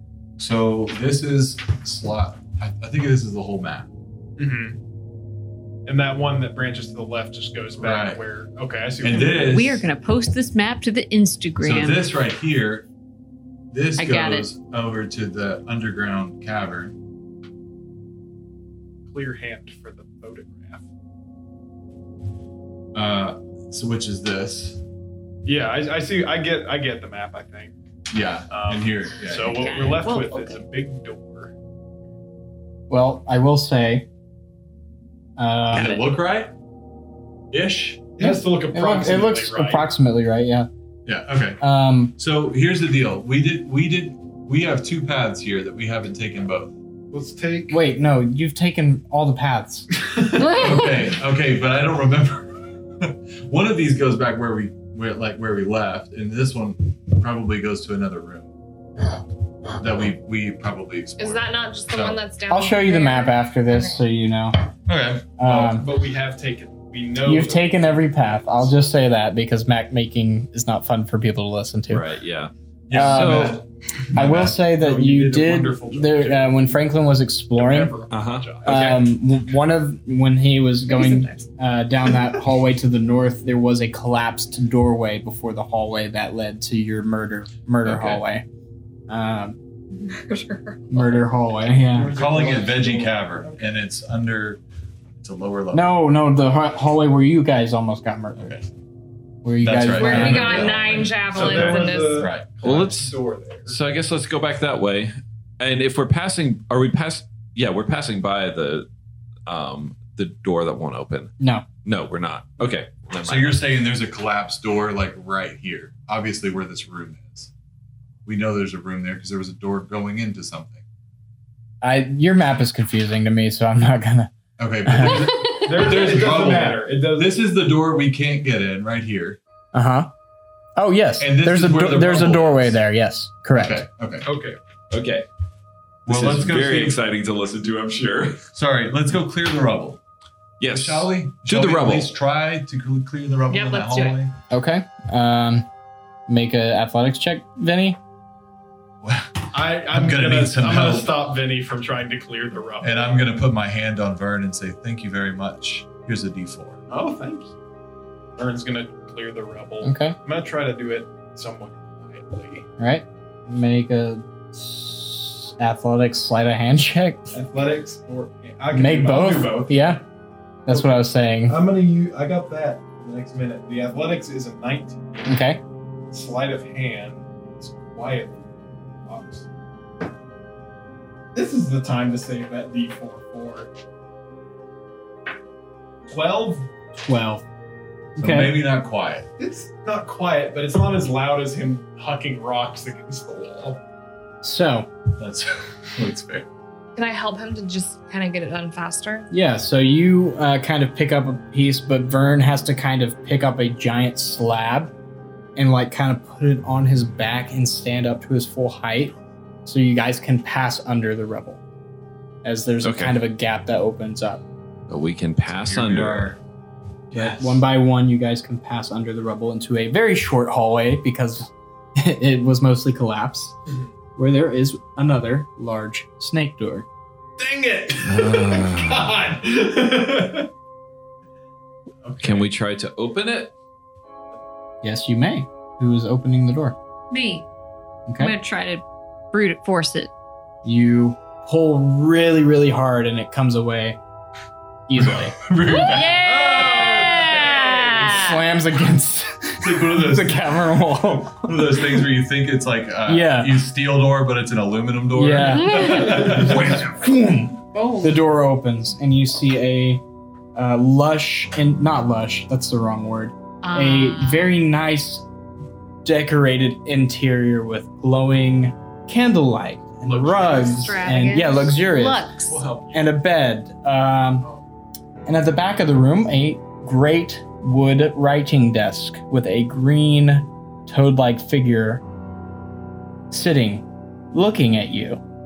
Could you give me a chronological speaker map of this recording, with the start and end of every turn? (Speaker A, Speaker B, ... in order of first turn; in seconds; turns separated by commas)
Speaker A: 0.4-3.9, Speaker B: 4.4-4.8, Speaker B: 5.8-9.6, Speaker A: 7.8-8.2, Speaker A: 9.0-9.8, Speaker C: 9.1-12.1, Speaker A: 11.6-12.9, Speaker A: 13.7-16.9, Speaker C: 14.0-14.4, Speaker B: 19.1-20.9, Speaker A: 22.9-24.8, Speaker B: 25.4-27.7, Speaker A: 28.1-30.0, Speaker B: 28.5-31.5, Speaker C: 29.4-30.6, Speaker D: 32.9-34.1, Speaker D: 35.4-36.0, Speaker E: 35.7-36.0, Speaker A: 35.7-36.5, Speaker A: 37.5-38.1, Speaker B: 38.1-39.9, Speaker D: 38.2-40.7, Speaker A: 41.0-41.6, Speaker D: 41.6-42.1, Speaker A: 42.2-46.7, Speaker B: 47.1-47.8, Speaker D: 47.7-49.9, Speaker B: 50.0-50.4, Speaker F: 50.4-50.9, Speaker A: 50.5-58.5, Speaker A: 59.8-62.2, Speaker F: 61.2-64.0, Speaker D: 62.5-64.7, Speaker A: 64.9-65.8, Speaker D: 65.4-65.9, Speaker B: 65.5-68.0, Speaker D: 67.2-72.0, Speaker E: 71.9-73.6, Speaker A: 72.9-74.6, Speaker D: 72.9-73.6, Speaker D: 74.1-77.9, Speaker B: 74.5-76.8, Speaker B: 77.5-79.0, Speaker E: 78.1-78.8, Speaker D: 78.6-88.5, Speaker F: 80.9-81.5, Speaker E: 87.8-88.2, Speaker D: 89.1-89.6, Speaker F: 89.9-91.1, Speaker D: 90.9-92.2, Speaker B: 91.7-93.7, Speaker A: 92.1-94.6, Speaker A: 95.2-95.9, Speaker D: 95.7-98.5, Speaker A: 98.4-98.7, Speaker D: 99.4-100.7, Speaker A: 99.6-102.8, Speaker F: 99.9-102.3, Speaker B: 100.3-100.7, Speaker B: 101.3-103.8, Speaker E: 101.3-101.7, Speaker E: 102.6-103.1, Speaker E: 103.7-108.9, Speaker E: 109.5-113.6, Speaker D: 111.4-111.7, Speaker A: 113.2-117.5, Speaker A: 118.2-120.8, Speaker D: 121.8-124.3, Speaker A: 124.6-129.4, Speaker D: 124.8-125.5, Speaker B: 125.0-127.4, Speaker D: 129.7-130.1, Speaker D: 130.8-133.8, Speaker A: 131.2-132.8, Speaker A: 133.5-134.3, Speaker B: 134.2-134.6, Speaker E: 134.9-135.3, Speaker A: 136.1-137.0, Speaker E: 136.1-138.4, Speaker A: 138.5-140.0, Speaker E: 140.6-142.1, Speaker A: 140.7-144.3, Speaker F: 143.5-144.2, Speaker D: 144.5-145.7, Speaker D: 146.3-148.0, Speaker A: 149.0-151.2, Speaker B: 149.5-153.2, Speaker A: 152.8-156.8, Speaker B: 156.9-157.5, Speaker B: 158.3-162.7, Speaker D: 159.8-160.2, Speaker D: 162.8-167.3, Speaker B: 167.3-169.8, Speaker D: 168.7-170.0, Speaker D: 170.7-171.6, Speaker B: 170.7-175.2, Speaker D: 175.2-175.6, Speaker B: 176.0-179.5, Speaker B: 181.3-183.7, Speaker B: 186.1-186.7, Speaker D: 187.0-187.4, Speaker D: 188.2-188.6, Speaker A: 188.2-189.3, Speaker B: 189.4-193.8, Speaker D: 194.4-194.9, Speaker A: 195.2-196.5, Speaker F: 196.9-199.3, Speaker D: 199.3-204.9, Speaker D: 205.6-209.1, Speaker D: 209.7-211.6, Speaker D: 212.4-214.4, Speaker E: 212.8-213.2, Speaker E: 214.9-216.3, Speaker A: 215.4-216.4, Speaker A: 217.1-217.6, Speaker D: 217.1-223.6, Speaker D: 224.2-226.8, Speaker B: 227.4-230.5, Speaker E: 228.0-229.1, Speaker B: 232.0-232.5, Speaker E: 232.2-233.5, Speaker D: 234.8-236.8, Speaker C: 237.1-237.4, Speaker D: 238.1-238.3, Speaker C: 238.2-240.1, Speaker D: 240.6-244.0, Speaker D: 244.9-245.3, Speaker A: 245.0-247.6, Speaker C: 245.7-248.4, Speaker D: 248.0-252.0, Speaker A: 249.6-256.8, Speaker D: 253.0-253.6, Speaker D: 255.1-260.0, Speaker F: 255.5-256.1, Speaker C: 255.5-256.3, Speaker C: 257.7-258.2, Speaker D: 260.5-265.2, Speaker C: 263.6-264.6, Speaker D: 266.0-272.3, Speaker B: 270.0-270.9, Speaker F: 270.6-271.6, Speaker C: 271.4-272.6, Speaker A: 272.5-273.0, Speaker D: 272.9-274.5, Speaker D: 275.2-282.0, Speaker D: 283.3-285.2